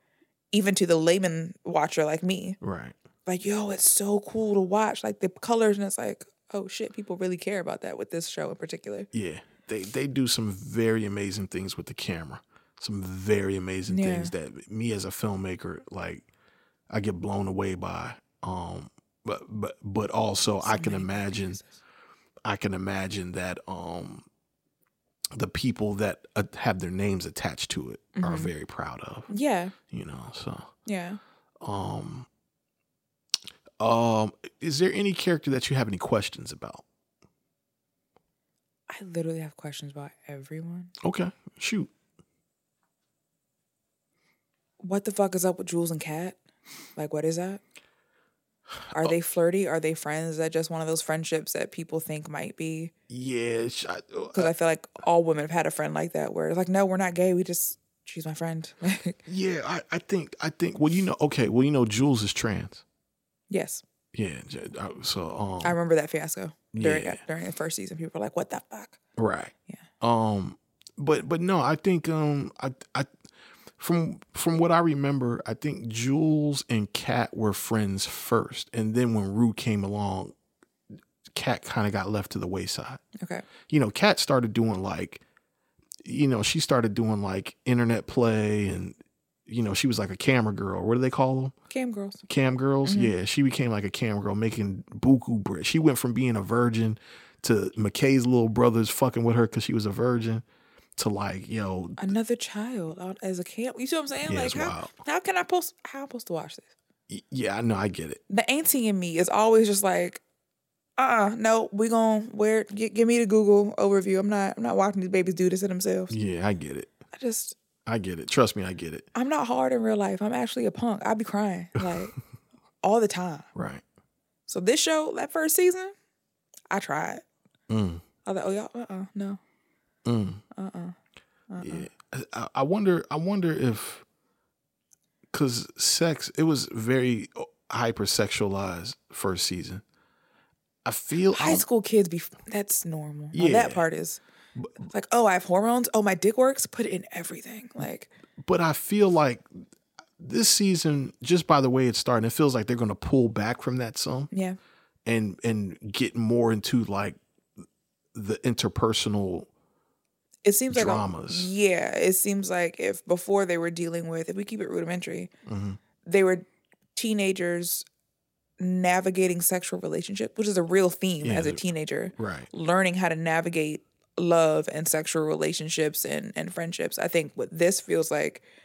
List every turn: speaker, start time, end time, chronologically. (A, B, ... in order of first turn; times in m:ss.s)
0:00.5-0:02.6 A
0:02.6-0:03.0 B
0:03.3-0:09.1 A
0:09.1-0:16.3 B
0:13.9-0:14.3 A
0:16.9-0:21.6 B
0:20.6-0:21.7 A
0:22.4-0:24.3 B
0:25.3-0:29.3 B
0:28.2-0:28.5 A
0:29.3-0:29.8 A
0:29.9-0:30.7 B
0:30.9-0:31.2 A
0:31.6-0:32.3 B
0:33.8-0:36.8 B
0:38.9-0:40.9 A
0:41.0-0:41.9 B
0:44.8-0:46.4 A
0:47.0-0:47.6 A
0:48.9-0:52.9 A
0:53.1-0:54.5 B
0:54.3-0:59.2 A
0:59.3-1:02.8 B
1:03.5-1:03.8 A
1:04.1-1:05.8 B
1:05.6-1:09.0 A
1:06.7-1:07.2 B
1:09.2-1:13.1 B
1:13.8-1:20.3 B
1:21.3-1:23.0 B
1:23.2-1:23.5 A
1:23.7-1:25.2 B
1:26.0-1:31.6 B
1:31.7-1:32.2 A
1:32.3-1:40.4 B
1:32.8-1:33.1 A
1:41.0-1:42.1 B
1:42.0-1:46.7 A
1:44.2-1:44.9 B
1:47.1-1:48.2 B
1:48.3-1:50.2 A
1:51.0-1:56.1 A
1:56.1-1:56.9 B
1:57.1-1:57.6 A
1:57.9-1:59.1 B
1:59.1-2:02.2 A
2:02.8-2:03.5 A
2:03.6-2:03.8 B
2:04.5-2:05.9 A
2:06.7-2:07.2 A
2:07.7-2:08.0 B
2:08.2-2:09.4 A
2:10.0-2:10.4 B
2:10.5-2:11.0 A
2:11.5-2:11.9 A
2:11.6-2:14.0 B
2:15.3-2:19.8 B
2:20.8-2:21.6 B
2:21.3-2:24.2 A
2:23.3-2:23.8 B
2:24.9-2:28.1 A
2:28.4-2:29.5 B
2:30.2-2:34.3 B
2:34.3-2:34.6 A
2:35.1-2:37.2 B
2:38.2-2:39.5 B
2:40.4-2:45.3 A
2:40.7-2:41.5 B
2:45.5-2:45.8 B
2:46.0-2:47.9 A
2:48.6-2:58.4 A
2:51.2-2:51.6 B
2:52.2-2:52.5 B